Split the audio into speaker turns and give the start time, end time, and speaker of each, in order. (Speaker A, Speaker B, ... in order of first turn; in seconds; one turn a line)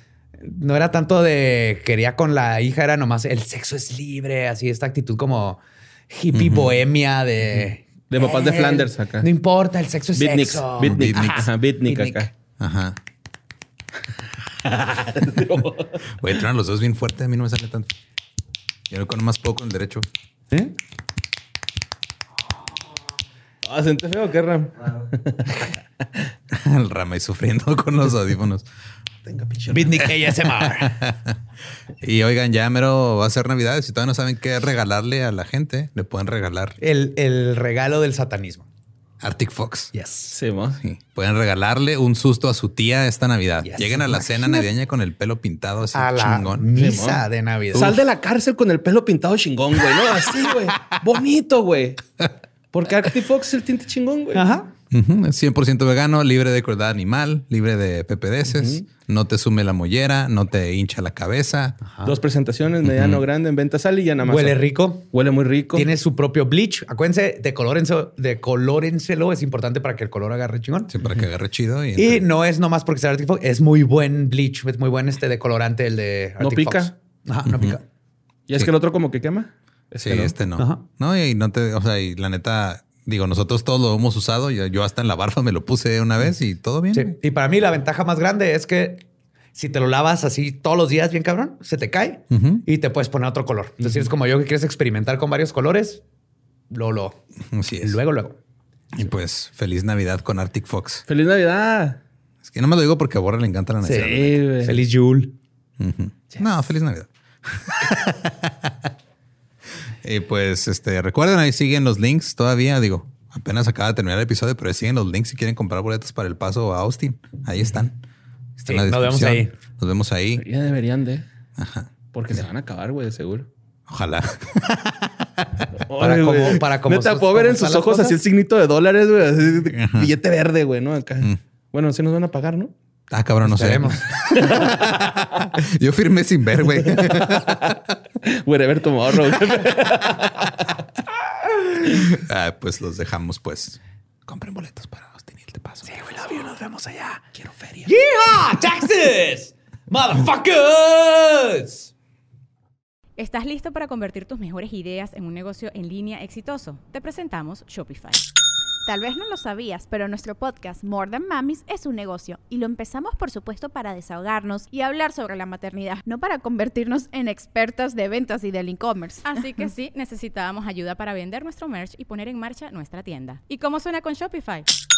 Speaker A: 0.4-12.3
Speaker B: 6.3-6.8
Speaker C: 8.1-9.3
Speaker C: 10.1-12.3
Speaker B: 10.8-11.4
Speaker B: 12.6-13.0
Speaker C: 14.6-16.1
Speaker B: 16.2-17.9
Speaker B: 18.9-20.1
Speaker C: 23.6-25.8
Speaker B: 26.5-28.6
Speaker C: 29.2-29.9
Speaker A: 29.7-31.0
Speaker B: 30.3-31.4
Speaker B: 32.0-36.8
Speaker A: 36.8-38.6
Speaker B: 39.2-39.9
Speaker A: 39.9-40.4
Speaker C: 40.3-40.8
Speaker B: 40.8-46.7
Speaker A: 43.6-44.7
Speaker A: 45.9-47.9
Speaker C: 46.7-52.0
Speaker C: 52.7-54.5
Speaker A: 54.3-54.7
Speaker B: 54.9-61.8
Speaker C: 58.5-58.8
Speaker A: 61.8-62.1
Speaker C: 62.0-65.9
Speaker B: 62.8-63.2
Speaker A: 64.2-65.1
Speaker A: 65.7-70.9
Speaker B: 70.9-72.2
Speaker A: 72.0-77.8
Speaker C: 76.4-76.9
Speaker B: 77.4-77.8
Speaker C: 78.5-80.3
Speaker B: 80.0-87.1
Speaker A: 80.6-80.8
Speaker A: 86.9-96.0
Speaker B: 92.3-92.6
Speaker C: 93.8-94.1
Speaker A: 96.7-97.2
Speaker B: 97.5-98.0
Speaker A: 97.8-98.4
Speaker B: 98.9-101.0
Speaker C: 101.1-102.0
Speaker B: 102.4-104.4
Speaker A: 103.8-104.1
Speaker C: 103.9-104.8
Speaker A: 104.6-105.3
Speaker B: 105.8-108.7
Speaker B: 110.0-118.0
Speaker B: 118.6-120.4
Speaker A: 118.7-119.5
Speaker C: 120.4-121.2
Speaker B: 121.6-121.9
Speaker C: 122.1-123.5
Speaker B: 123.9-125.6
Speaker C: 125.9-132.7
Speaker A: 126.0-128.2
Speaker B: 129.8-130.1
Speaker B: 133.1-137.8
Speaker A: 133.4-134.1
Speaker C: 134.3-135.2
Speaker C: 137.0-140.7
Speaker B: 141.9-145.9
Speaker A: 145.8-147.2
Speaker C: 147.3-147.9
Speaker A: 147.8-151.9
Speaker D: 153.2-158.3
Speaker E: 158.8-169.3
Speaker D: 169.2-174.7